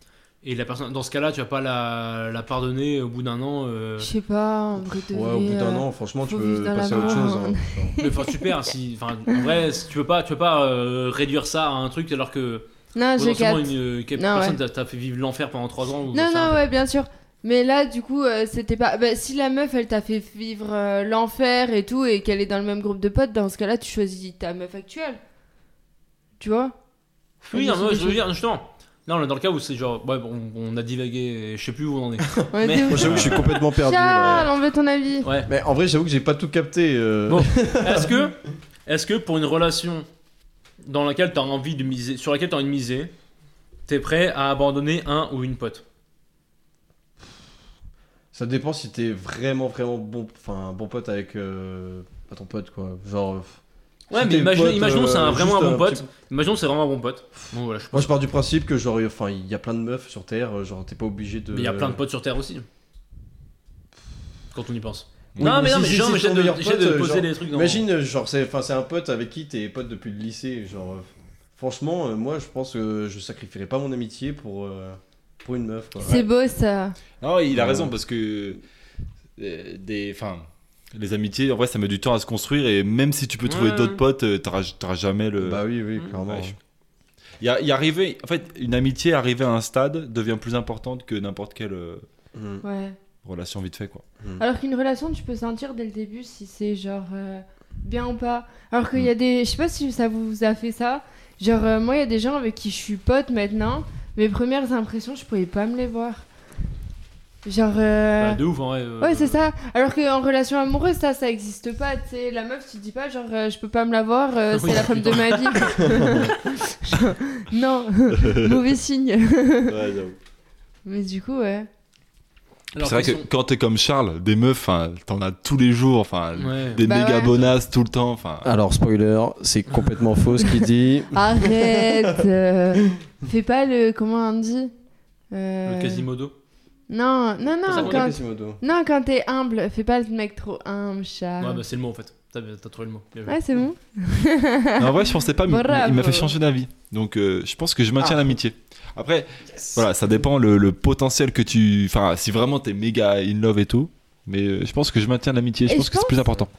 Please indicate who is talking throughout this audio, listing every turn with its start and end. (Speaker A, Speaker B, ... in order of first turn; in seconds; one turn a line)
Speaker A: 0.4-4.1
Speaker B: 4.0-8.5
Speaker C: 5.1-7.9
Speaker A: 6.9-7.2
Speaker A: 8.0-16.6
Speaker B: 12.9-14.6
Speaker B: 16.1-25.2
Speaker B: 26.4-26.7
Speaker B: 27.4-28.2
Speaker A: 27.5-33.4
Speaker C: 32.4-34.5
Speaker B: 32.5-35.3
Speaker D: 33.1-33.4
Speaker A: 35.2-35.5
Speaker C: 35.5-38.1
Speaker A: 37.3-40.1
Speaker A: 40.8-43.1
Speaker A: 43.9-45.8
Speaker C: 48.3-53.6
Speaker A: 54.1-58.1
Speaker C: 54.1-56.0
Speaker C: 57.9-62.0
Speaker A: 61.5-62.6
Speaker A: 64.5-67.8
Speaker C: 65.4-76.2
Speaker B: 76.0-77.0
Speaker D: 77.2-78.6
Speaker C: 77.5-77.9
Speaker D: 79.4-86.6
Speaker A: 83.5-84.0
Speaker C: 85.4-86.5
Speaker D: 87.4-92.0
Speaker C: 92.3-92.6
Speaker B: 92.6-93.0
Speaker D: 93.2-94.0
Speaker B: 94.4-106.2
Speaker B: 107.4-108.4
Speaker A: 108.2-109.4
Speaker B: 109.0-119.8
Speaker A: 114.5-116.4
Speaker D: 118.1-118.6
Speaker D: 119.7-120.2
Speaker B: 120.8-121.7
Speaker A: 122.7-123.3
Speaker D: 122.8-128.5
Speaker A: 126.3-126.8
Speaker B: 126.8-127.4
Speaker C: 128.4-132.2
Speaker B: 131.1-134.7
Speaker B: 135.3-136.0
Speaker A: 135.6-136.3
Speaker B: 136.9-141.6
Speaker A: 137.7-138.1
Speaker C: 137.7-138.6
Speaker A: 141.4-143.4
Speaker B: 143.3-146.3
Speaker D: 144.8-156.5
Speaker C: 148.0-148.3
Speaker B: 155.7-156.3